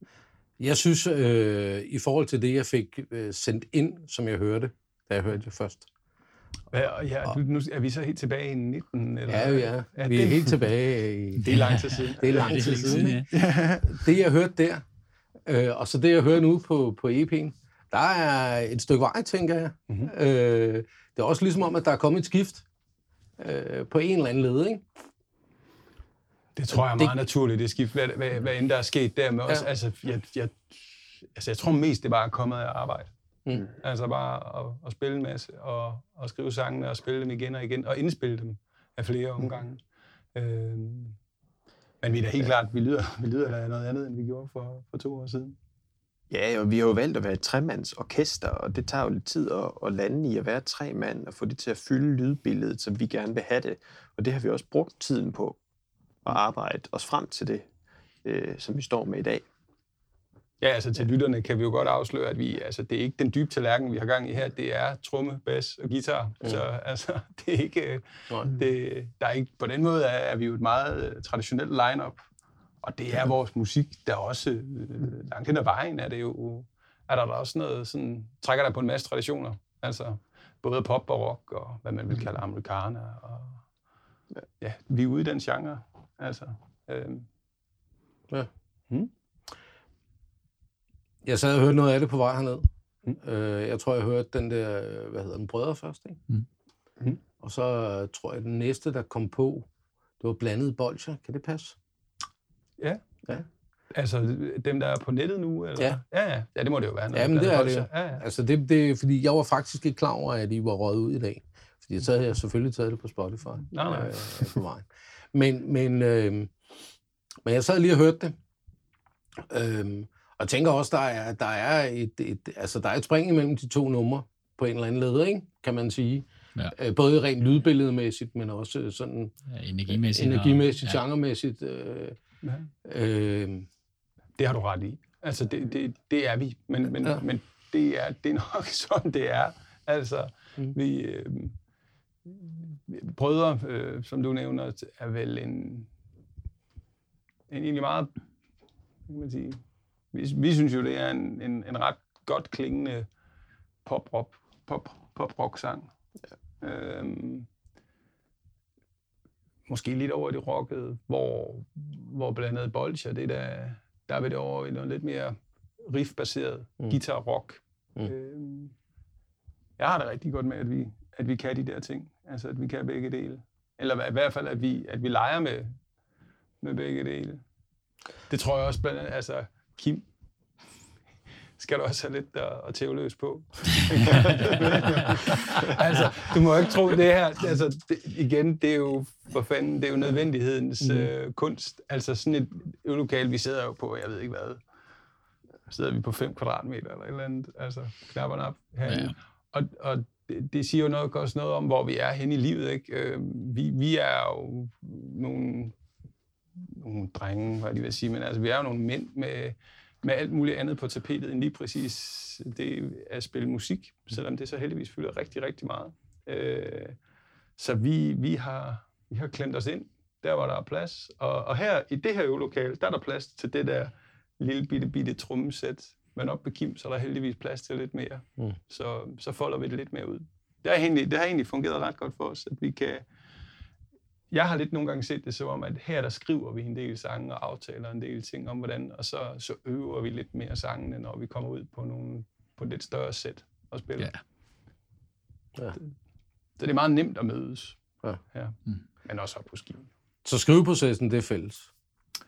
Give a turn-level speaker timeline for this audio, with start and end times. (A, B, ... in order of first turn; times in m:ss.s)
0:00.6-0:05.9 A
0:06.7-0:10.6 B
0:09.3-0:11.5 A
0:11.4-0:13.3 C
0:11.4-0:14.0 B
0:12.2-0:14.8 A
0:15.4-0:22.6 A
0:23.4-0:24.8 A
0:26.6-0:33.1 B
0:26.7-0:27.1 A
0:33.7-0:39.8 B
0:40.3-0:41.2 B
0:42.0-0:45.6 B
0:46.3-0:55.6 D
0:56.2-0:57.6 D
0:58.2-0:59.5 D
1:00.6-1:12.2 B
1:12.8-1:23.6 B
1:24.6-1:27.2 B
1:31.2-1:36.2 A
1:37.4-1:39.7 A
1:40.2-1:41.8 A
1:42.8-1:43.0 B
1:43.9-1:48.2 B
1:47.1-1:56.5 A
1:53.7-1:54.6 B
1:57.4-1:58.3 A
1:59.4-2:09.3 A
2:09.5-2:11.0 C
2:09.9-2:12.2 A
2:12.4-2:12.7 B
2:12.8-2:13.7 A
2:14.4-2:21.5 B
2:22.2-2:25.9 B
2:27.5-2:28.1 B
2:29.1-2:29.6 B
2:30.1-2:33.1 B
2:33.8-2:35.9 B
2:36.6-2:37.5 B
2:39.7-2:48.7 B
2:49.8-2:55.8 B
2:56.6-2:57.4 B
2:58.3-3:00.0 B
3:01.6-3:14.6 B
3:04.0-3:04.4 C
3:10.8-3:11.1 A
3:15.7-3:25.7 B
3:18.8-3:19.2 C
3:26.6-3:37.0 B
3:37.6-3:53.0 B
3:54.3-4:04.1 B
4:06.6-4:07.8 B
4:08.3-4:09.9 B
4:10.2-4:11.7 A